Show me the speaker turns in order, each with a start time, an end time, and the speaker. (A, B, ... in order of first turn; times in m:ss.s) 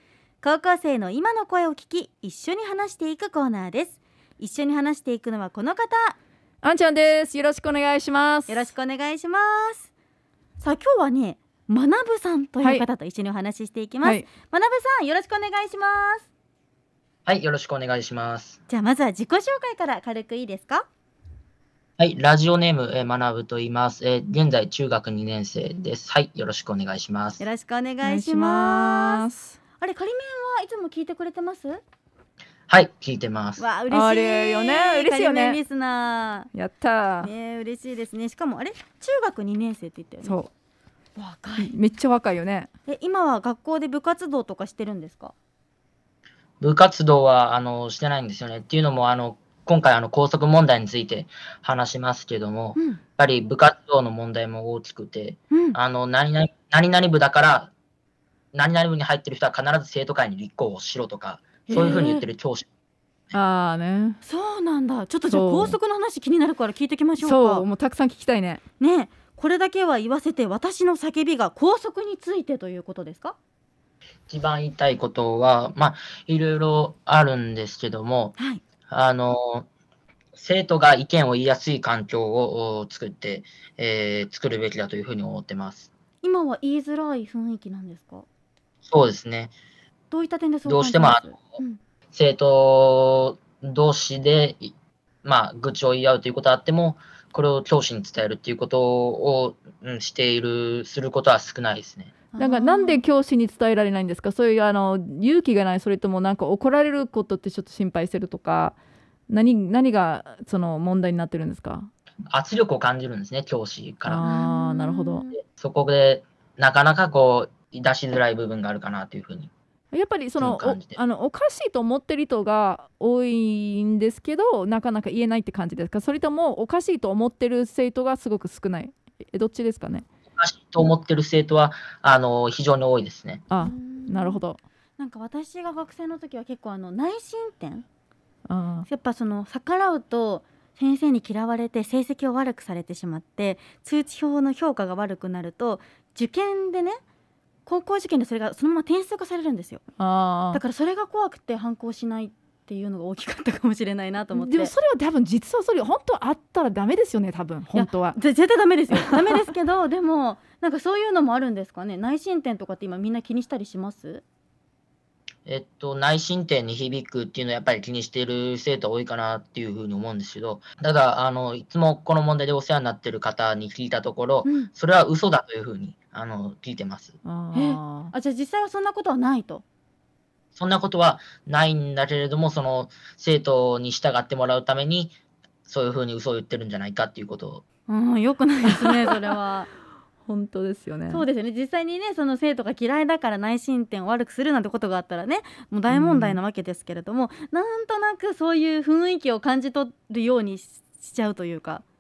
0:00.4-0:06.2 A
0:06.6-0:08.7 B
0:08.5-0:09.9 A
0:10.6-0:16.3 A
0:17.3-0:18.6 C
0:18.7-0:20.9 A
0:22.0-0:27.4 C
0:27.4-0:29.3 A
0:28.0-0:29.6 B
0:29.8-0:31.8 A
0:32.7-0:33.6 C
0:33.6-0:36.5 A
0:33.9-0:35.6 B
0:36.5-0:37.3 B
0:37.2-0:40.4 A
0:40.2-0:40.5 B
0:41.2-0:41.7 A
0:41.6-0:42.7 B
0:42.9-0:45.3 A
0:46.6-0:57.7 C
0:55.5-0:55.8 A
0:58.5-1:02.7 C
1:01.7-1:02.2 B
1:01.7-1:02.2 A
1:03.3-1:04.2 B
1:04.2-1:07.7 A
1:05.3-1:05.8 B
1:07.2-1:08.6 B
1:08.8-1:13.4 A
1:14.3-1:18.4 C
1:18.4-1:18.6 A
1:18.9-1:19.7 C
1:20.3-1:25.9 C
1:26.2-1:28.2 A
1:28.8-1:29.5 C
1:30.1-1:31.8 A
1:30.7-1:31.6 C
1:32.1-1:42.2 C
1:42.3-1:43.0 A
1:42.4-1:48.8 B
1:49.3-1:51.9 B
1:52.3-1:54.3 C
1:54.1-1:55.3 B
1:54.2-1:55.4 A
1:55.4-1:59.5 C
1:59.9-2:10.1 B
2:00.4-2:01.0 C
2:10.3-2:13.4 C
2:13.5-2:14.6 B
2:13.6-2:14.4 A
2:15.0-2:17.9 A
2:18.5-2:18.9 B
2:18.9-2:27.0 A
2:27.7-2:29.8 A
2:30.0-2:30.6 B
2:30.5-2:34.7 A
2:34.3-2:38.2 B
2:37.7-2:44.2 A
2:45.5-2:57.2 C
2:54.4-2:54.7 A
2:57.2-2:58.1 B
2:57.5-2:59.6 A
3:00.6-3:07.6 C
3:07.9-3:09.7 A
3:08.8-3:09.3 B
3:10.3-3:11.2 B
3:11.1-3:21.8 A
3:15.9-3:16.4 B